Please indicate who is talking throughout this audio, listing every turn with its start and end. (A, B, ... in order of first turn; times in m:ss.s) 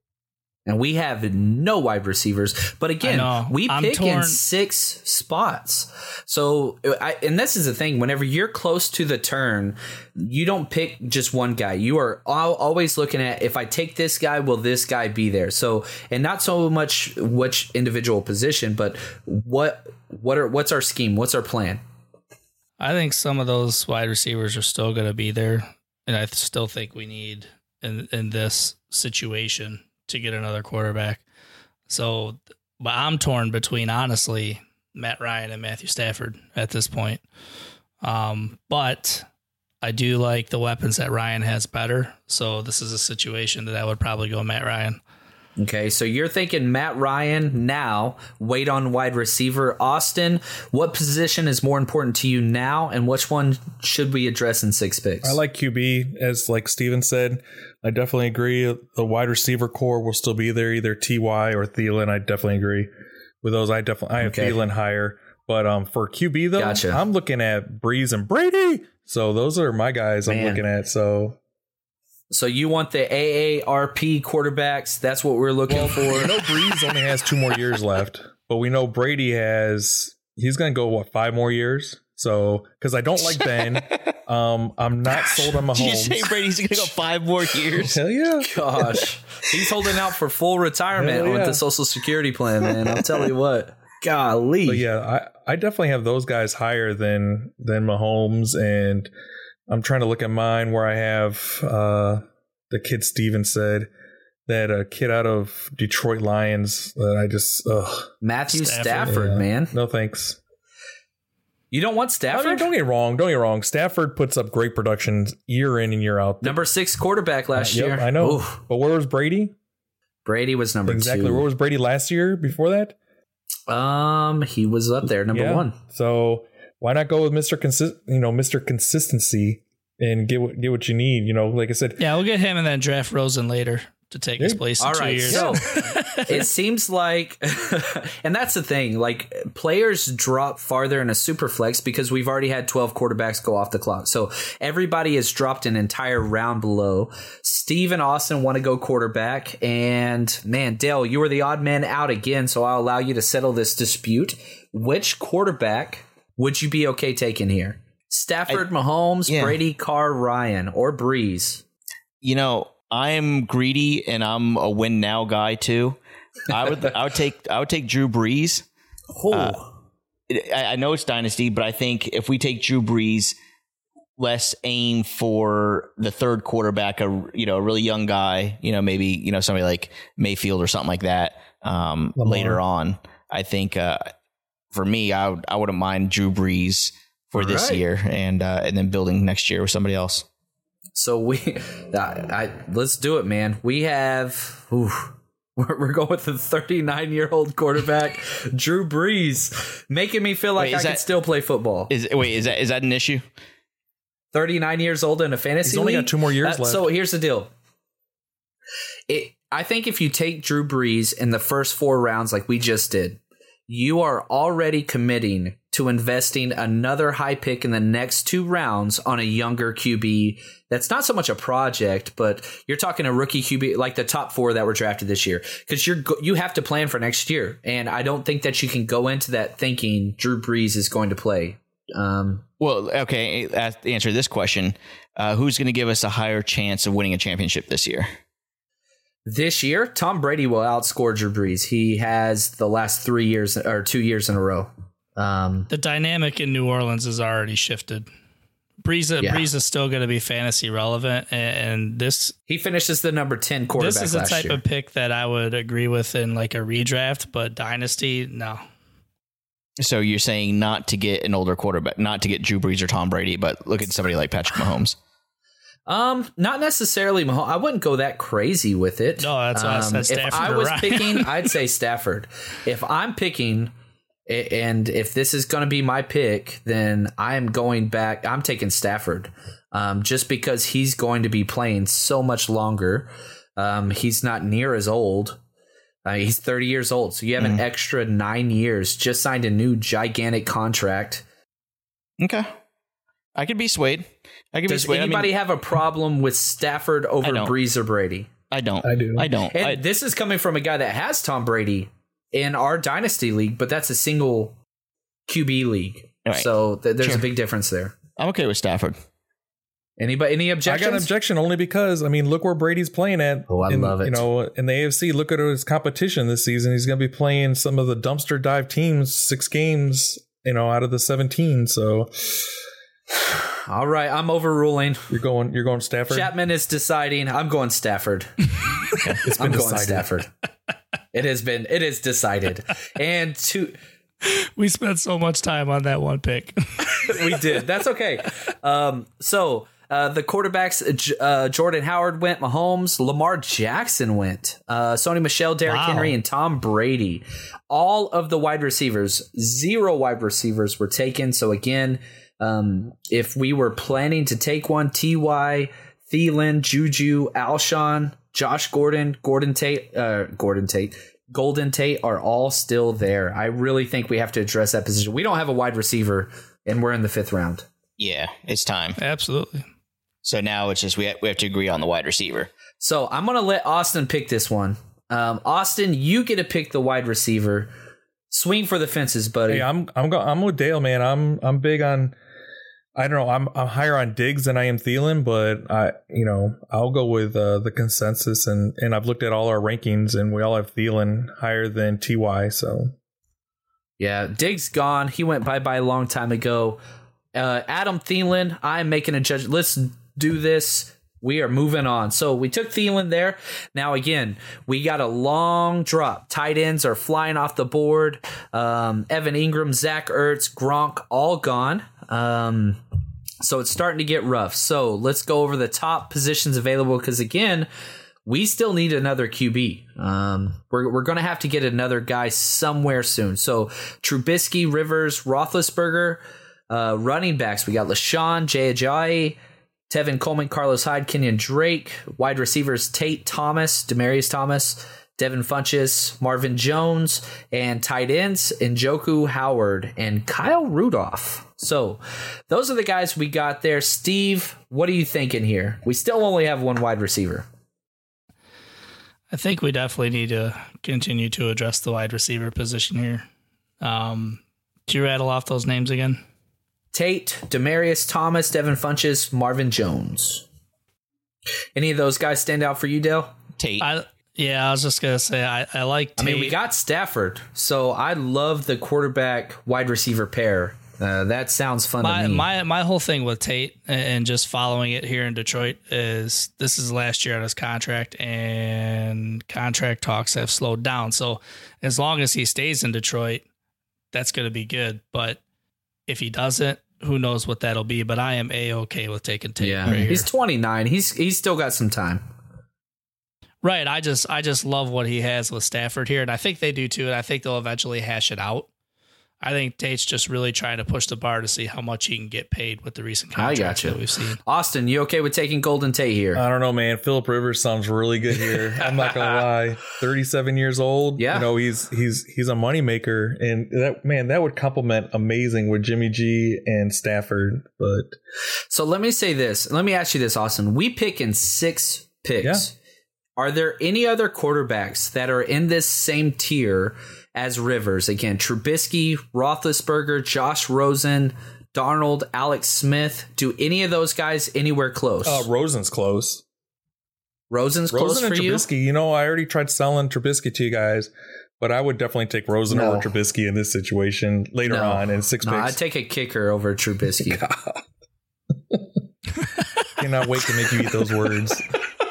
0:00.6-0:21.8 A
0:03.0-0:04.4 B
0:22.8-0:31.2 B
0:31.9-0:37.2 B
0:38.0-0:39.2 B
0:39.8-0:45.0 B
0:45.6-0:55.4 A
0:55.2-1:02.9 C
1:03.4-1:11.4 C
1:04.2-1:04.6 A
1:06.6-1:07.0 A
1:10.2-1:10.6 A
1:12.3-1:16.4 A
1:15.7-1:26.3 C
1:23.2-1:24.1 D
1:25.1-1:28.0 D
1:27.7-1:28.5 C
1:28.4-1:34.8 A
1:31.0-1:31.6 C
1:34.6-1:39.1 C
1:39.7-1:43.9 C
1:44.5-1:48.1 C
1:48.2-1:49.7 A
1:48.5-1:49.2 B
1:49.0-1:50.4 C
1:51.7-1:52.7 A
1:52.3-1:56.6 C
1:56.4-1:58.6 A
1:57.5-1:59.5 C
2:00.2-2:01.4 A
2:00.8-2:03.0 C
2:03.7-2:05.8 A
2:05.3-2:12.0 C
2:12.0-2:16.4 B
2:14.8-2:15.7 A
2:15.2-2:15.9 C
2:16.3-2:41.6 A
2:39.3-2:39.6 D
2:42.2-2:48.6 D
2:49.1-2:49.7 A
2:49.3-2:49.6 D
2:50.3-2:53.3 D
2:54.2-3:04.1 D
3:02.2-3:02.6 C
3:04.7-3:10.2 D
3:07.4-3:07.8 A
3:11.0-3:21.9 A
3:20.6-3:21.0 D
3:21.9-3:23.2 D
3:24.3-3:27.5 A
3:25.6-3:26.9 C
3:29.1-3:52.4 A
3:52.6-3:58.1 D
3:59.2-4:05.7 A
4:05.7-4:08.0 B
4:08.8-4:12.3 B
4:09.2-4:09.4 A
4:12.5-4:14.6 A
4:13.8-4:18.6 B
4:19.8-4:25.0 D
4:25.9-4:33.7 A
4:29.2-4:31.5 B
4:34.3-4:45.4 A
4:46.0-4:51.2 A
4:47.4-4:47.6 D
4:52.2-4:52.5 D
4:53.3-4:55.3 D
4:54.7-4:58.3 A
4:57.2-4:57.5 D
4:58.5-4:59.8 D
4:58.8-4:59.3 C
4:59.5-5:04.6 A
5:05.3-5:07.9 A
5:06.2-5:06.5 D
5:08.2-5:09.0 D
5:10.0-5:11.1 A
5:10.6-5:22.4 C
5:13.5-5:14.2 A
5:23.7-5:25.1 A
5:25.1-5:26.3 C
5:26.1-5:28.3 A
5:29.2-5:30.1 C
5:29.3-5:30.3 A
5:31.1-5:33.8 A
5:34.2-5:37.2 B
5:37.0-6:07.7 A
5:45.6-5:46.1 B
6:08.0-6:09.0 D
6:09.0-6:09.6 B
6:10.2-6:12.5 D
6:12.8-6:17.7 A
6:18.3-6:19.6 A
6:19.5-6:22.2 C
6:23.0-6:32.9 C
6:34.0-6:36.8 A
6:37.3-6:52.8 A
6:53.4-6:57.7 A
6:58.2-7:09.4 A
7:09.9-7:27.4 A
7:29.3-7:33.2 B
7:33.8-7:36.2 B
7:36.9-7:40.4 A
7:41.8-7:43.3 A
7:43.6-7:43.9 D
7:43.8-7:46.6 B
7:46.2-7:52.4 A
7:52.0-8:03.4 B
8:04.1-8:05.4 B
8:06.1-8:10.3 B
8:09.6-8:12.2 A
8:13.6-8:18.7 B
8:19.4-8:24.4 B
8:23.4-8:26.4 A
8:26.3-8:38.1 C
8:31.2-8:31.5 A
8:38.7-8:42.7 A
8:43.4-8:55.5 A
8:55.2-8:56.4 C
8:57.5-8:58.7 A
8:57.9-9:05.8 C
9:02.7-9:03.0 A
9:04.7-9:07.4 A
9:07.3-9:07.8 C
9:10.0-9:11.7 C